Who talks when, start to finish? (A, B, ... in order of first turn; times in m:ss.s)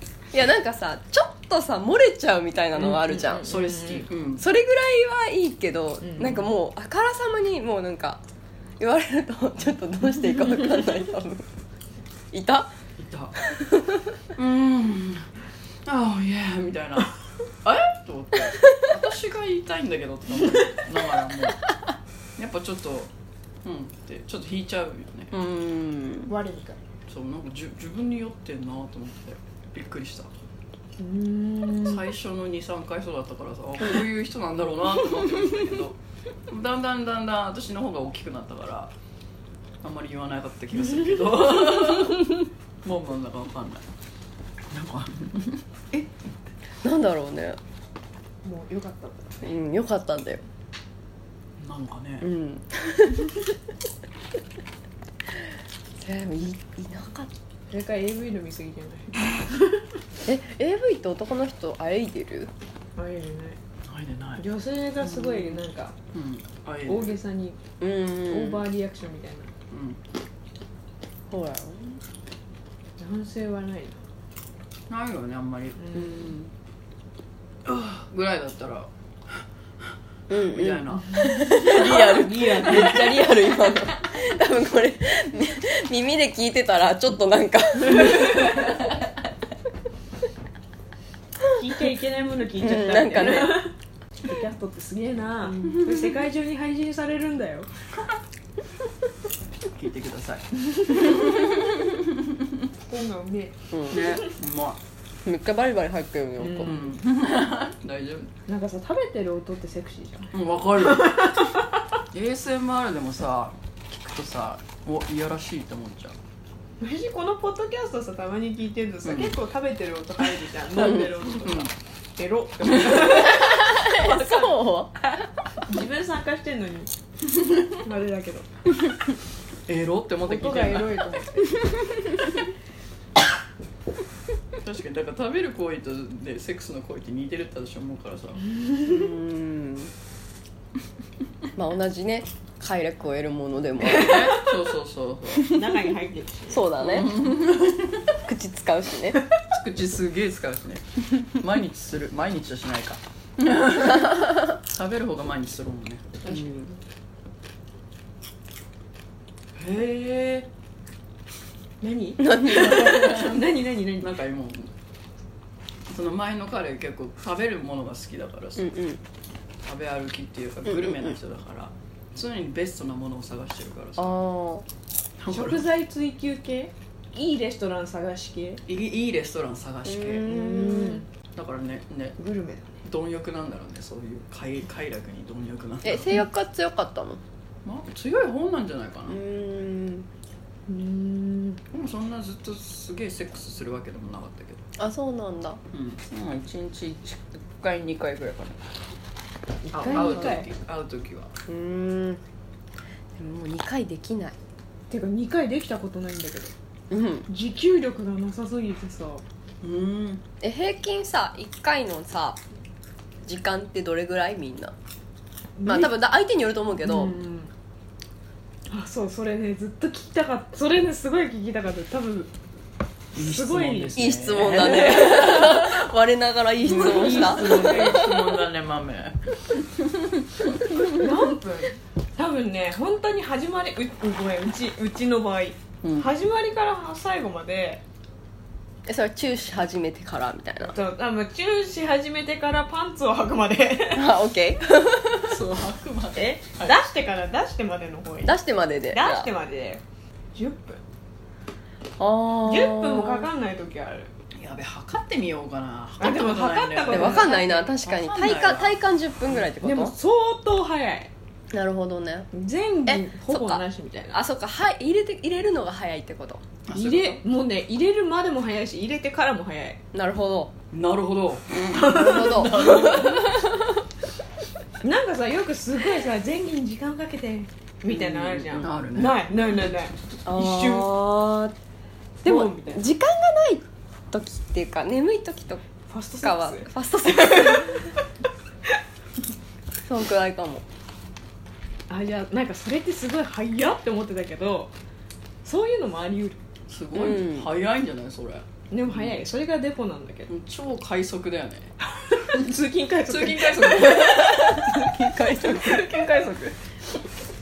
0:00.3-0:03.5 A
0:02.8-0:04.1 B
0:03.4-0:04.4 C
0:04.4-0:08.2 A
0:06.0-0:06.4 B
0:08.8-0:11.5 A
0:12.3-0:12.7 A
0:13.0-0:13.4 C
0:13.4-0:14.1 A
0:14.4-0:15.3 C
0:15.8-0:21.6 C
0:22.4-0:23.1 C
0:23.6-0:25.3 C
0:25.3-0:26.3 A
0:26.3-0:26.8 B
0:27.1-0:30.3 C
0:31.0-0:32.1 B
0:31.8-0:36.0 C
0:36.5-0:38.9 C
0:39.8-0:43.8 C
0:44.7-0:46.1 C
0:46.8-0:47.6 A
0:48.4-0:49.4 B
0:49.4-0:50.4 A
0:51.6-0:52.3 C
0:52.2-0:53.4 A
0:56.0-0:57.3 A
0:57.7-0:59.9 B
1:00.3-1:02.5 A
1:03.0-1:03.6 B
1:03.9-1:04.4 C
1:04.4-1:06.0 B
1:05.1-1:05.5 A
1:06.1-1:07.2 C
1:06.9-1:07.6 B
1:07.8-1:08.6 A
1:08.3-1:09.5 B
1:09.7-1:10.0 C
1:11.3-1:12.0 A
1:13.0-1:14.0 B
1:14.9-1:16.4 C
1:15.8-1:16.3 B
1:16.0-1:16.4 A
1:17.6-1:22.1 C
1:20.3-1:28.8 A
1:21.0-1:23.4 B
1:31.6-1:37.7 B
1:32.6-1:33.7 A
1:35.5-1:35.8 A
1:35.7-1:36.0 C
1:39.7-1:42.7 C
1:42.9-1:44.3 B
1:43.7-1:44.2 A
1:43.9-1:44.8 C
1:45.2-1:46.8 A
1:46.4-1:46.8 B
1:46.6-1:48.3 C
1:48.5-1:51.7 B
1:50.3-1:51.5 C
1:52.1-1:56.2 C
1:56.8-2:04.6 B
1:59.0-1:59.4 C
2:00.8-2:01.7 C
2:00.8-2:01.1 A
2:03.1-2:05.2 A
2:05.6-2:06.9 B
2:07.8-2:08.5 B
2:09.7-2:11.1 C
2:10.3-2:11.7 B
2:11.6-2:12.2 A
2:14.6-2:18.4 C
2:18.6-2:18.8 B
2:18.8-2:19.9 A
2:21.6-2:24.4 A
2:23.8-2:25.6 C
2:24.1-2:24.4 B
2:25.5-2:26.6 B
2:26.5-2:27.1 A
2:26.8-2:28.1 C
2:28.3-2:29.2 A
2:29.5-2:36.2 C
2:36.3-2:36.8 A
2:39.6-2:40.5 C
2:41.8-2:44.1 B
2:42.2-2:43.1 A
2:42.4-2:44.7 C
2:45.9-2:48.7 C
2:48.6-2:49.0 A
2:49.6-2:54.2 C
2:50.7-2:51.2 A
2:54.0-2:54.7 A
2:55.2-2:55.7 C
2:55.3-2:58.6 B
2:58.7-3:00.3 C
2:59.9-3:01.0 A
3:00.3-3:01.1 B
3:01.3-3:02.2 C
3:02.2-3:02.8 B
3:02.8-3:06.2 C
3:05.8-3:07.2 A
3:07.6-3:09.2 C
3:09.1-3:10.1 A
3:10.7-3:11.6 B
3:11.7-3:14.6 C
3:14.8-3:15.6 A
3:15.7-3:18.6 C
3:19.6-3:20.5 B
3:19.7-3:21.3 C
3:21.5-3:22.2 A
3:23.2-3:24.4 A
3:24.9-3:26.5 B
3:26.9-3:27.3 A
3:27.3-3:29.2 B
3:29.6-3:30.2 C
3:30.4-3:32.4 A
3:33.2-3:34.7 A
3:35.6-3:35.9 B
3:35.7-3:37.2 A
3:36.8-3:37.5 B
3:38.7-3:42.3 B
3:43.2-3:44.0 B
3:43.2-3:45.9 C
3:44.0-3:48.1 A
3:46.6-3:48.3 B
3:46.6-3:50.9 C
3:50.8-3:57.8 B
3:55.8-3:56.1 C
3:58.9-4:00.8 A
4:00.6-4:04.1 B
4:03.9-4:05.3 A
4:05.3-4:06.8 C
4:06.2-4:08.4 B
4:08.2-4:09.3 A
4:08.9-4:09.8 B
4:10.4-4:10.8 B
4:12.0-4:13.3 A
4:12.4-4:14.1 B
4:14.4-4:18.8 C
4:16.0-4:17.7 B
4:16.9-4:19.9 A
4:19.6-4:21.1 B
4:21.5-4:22.3 A
4:22.3-4:24.2 B
4:22.9-4:26.4 A
4:26.7-4:27.2 C
4:26.7-4:29.8 B
4:29.9-4:30.5 A
4:30.7-4:33.5 C
4:31.7-4:33.1 B
4:31.9-4:33.6 A
4:34.8-4:40.9 B
4:37.9-4:39.2 C
4:40.2-4:41.6 A
4:42.2-4:45.6 A
4:42.2-4:42.8 B
4:45.9-4:47.9 B
4:46.2-4:47.9 A
4:49.8-4:50.6 A
4:51.9-4:54.7 B
4:55.4-4:56.4 B
4:56.7-4:59.2 C
4:56.9-4:57.5 A
4:58.7-5:00.3 B
5:00.3-5:01.7 C
5:02.1-5:04.4 B
5:03.1-5:06.6 C
5:04.2-5:05.9 A